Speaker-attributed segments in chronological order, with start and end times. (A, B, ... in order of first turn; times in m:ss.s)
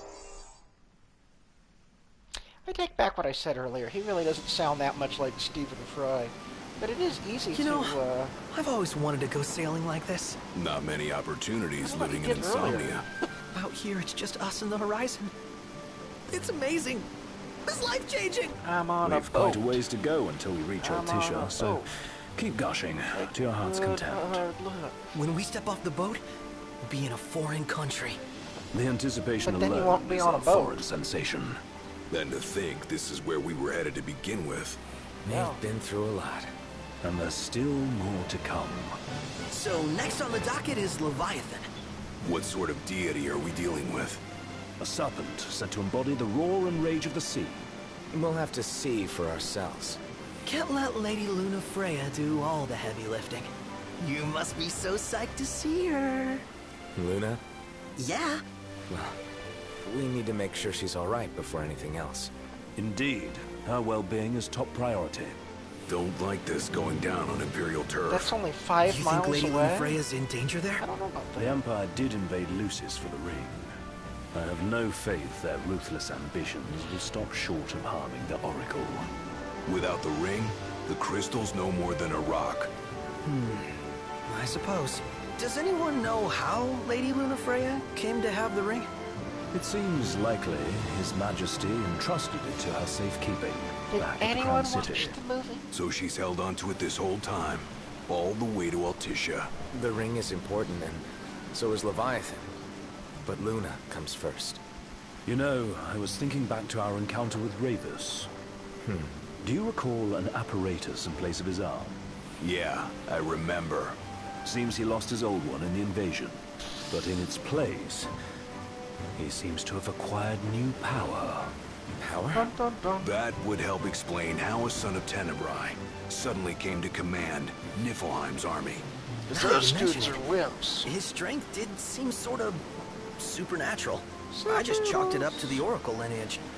0:02.6-0:08.4 A
0:07.5-0:08.0 B
0:08.5-0:10.4 B
0:10.5-0:13.1 C
0:11.8-0:13.0 A
0:13.5-0:15.3 B
0:16.3-0:17.1 B
0:17.6-0:18.6 B
0:18.6-0:19.8 A
0:19.0-0:24.4 D
0:20.8-0:22.1 A
0:23.1-0:25.0 A
0:25.1-0:26.2 B
0:26.8-0:28.2 B
0:28.7-0:31.6 D
0:29.4-0:30.8 A
0:32.1-0:34.8 C
0:35.2-0:36.5 E
0:35.3-0:35.6 A
0:37.0-0:39.0 D
0:39.5-0:41.7 B
0:42.2-0:44.2 C
0:44.8-0:47.6 D
0:48.1-0:50.0 E
0:50.4-0:56.4 B
0:57.0-0:57.4 E
0:58.0-0:58.4 B
0:58.9-0:59.2 E
0:59.8-1:02.3 E
1:02.8-1:05.4 D
1:05.9-1:08.3 C
1:08.1-1:10.0 A
1:08.9-1:10.9 B
1:10.8-1:11.6 A
1:11.4-1:13.7 D
1:14.3-1:19.1 D
1:19.6-1:22.7 C
1:23.3-1:23.7 B
1:24.2-1:28.9 B
1:29.5-1:35.2 D
1:33.9-1:35.6 A
1:35.7-1:39.5 C
1:39.7-1:42.5 E
1:43.2-1:44.6 E
1:45.3-1:48.3 D
1:48.8-1:49.2 E
1:49.4-1:52.0 D
1:52.4-1:54.0 C
1:54.4-1:58.1 D
1:59.2-2:01.6 D
2:02.0-2:02.5 E
2:02.3-2:03.1 A
2:03.0-2:08.9 C
2:09.3-2:10.9 A
2:09.3-2:10.2 B
2:10.8-2:12.6 B
2:13.2-2:16.4 B
2:14.3-2:15.6 A